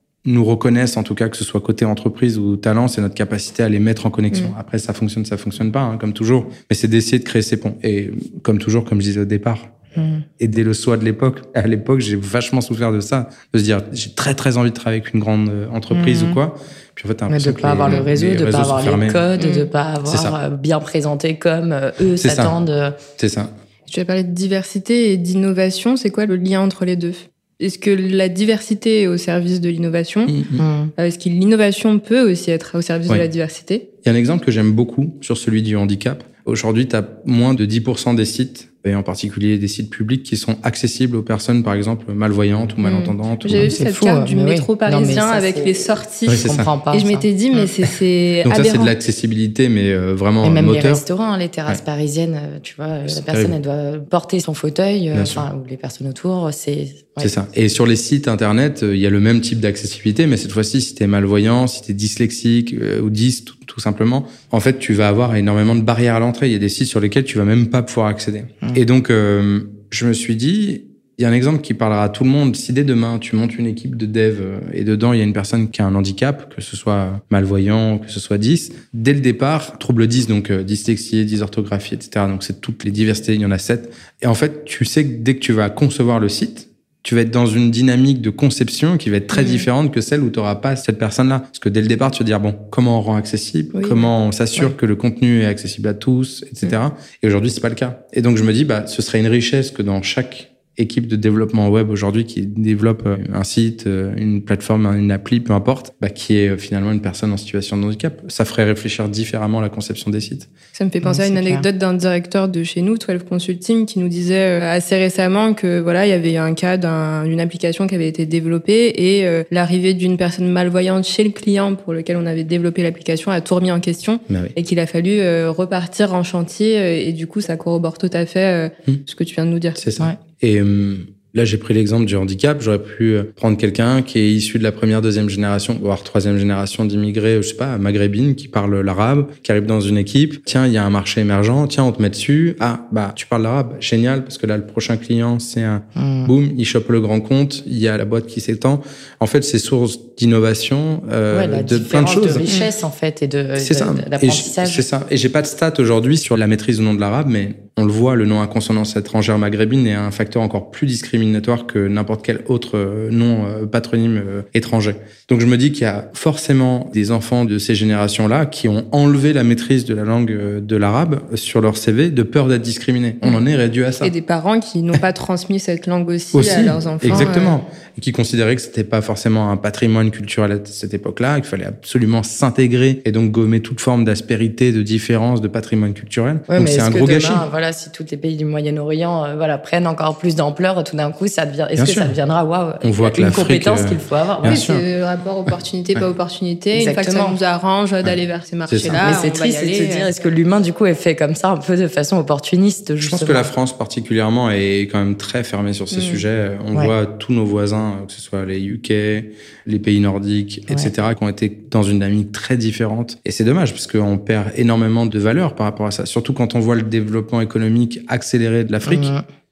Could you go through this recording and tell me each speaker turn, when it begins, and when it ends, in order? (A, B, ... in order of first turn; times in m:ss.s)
0:00.2-0:09.7 A
0:10.0-0:10.2 B
0:10.4-0:19.2 A
0:15.9-0:16.4 B
0:17.3-0:23.0 B
0:19.4-0:19.7 C
0:20.0-0:20.4 A
0:22.2-0:22.5 A
0:23.2-0:23.5 A
0:23.9-0:30.4 C
0:30.3-0:30.6 A
0:30.6-0:30.9 B
0:31.0-0:33.9 C
0:34.0-0:43.7 A
0:42.9-0:47.3 B
0:43.4-0:48.9 C
0:46.3-0:46.7 A
0:48.4-0:51.0 A
0:50.4-0:57.3 B
0:53.1-0:53.5 A
0:55.1-0:55.5 A
0:57.2-1:50.5 A
1:29.4-1:29.7 C
1:33.7-1:34.1 C
1:50.8-2:09.8 C
1:51.0-1:51.6 B
2:04.3-2:04.5 A
2:09.8-2:32.4 A
2:26.0-2:26.3 B
2:31.3-2:34.8 B
2:33.6-2:54.1 A
2:54.0-2:57.5 C
2:56.3-3:07.5 A
3:06.5-3:14.6 B
3:11.8-3:12.2 A
3:12.8-3:14.8 A
3:14.4-3:20.1 C
3:16.7-3:17.4 B
3:18.7-3:19.1 A
3:19.0-3:23.5 B
3:23.0-3:39.1 A
3:25.9-3:26.2 C
3:38.9-3:39.2 B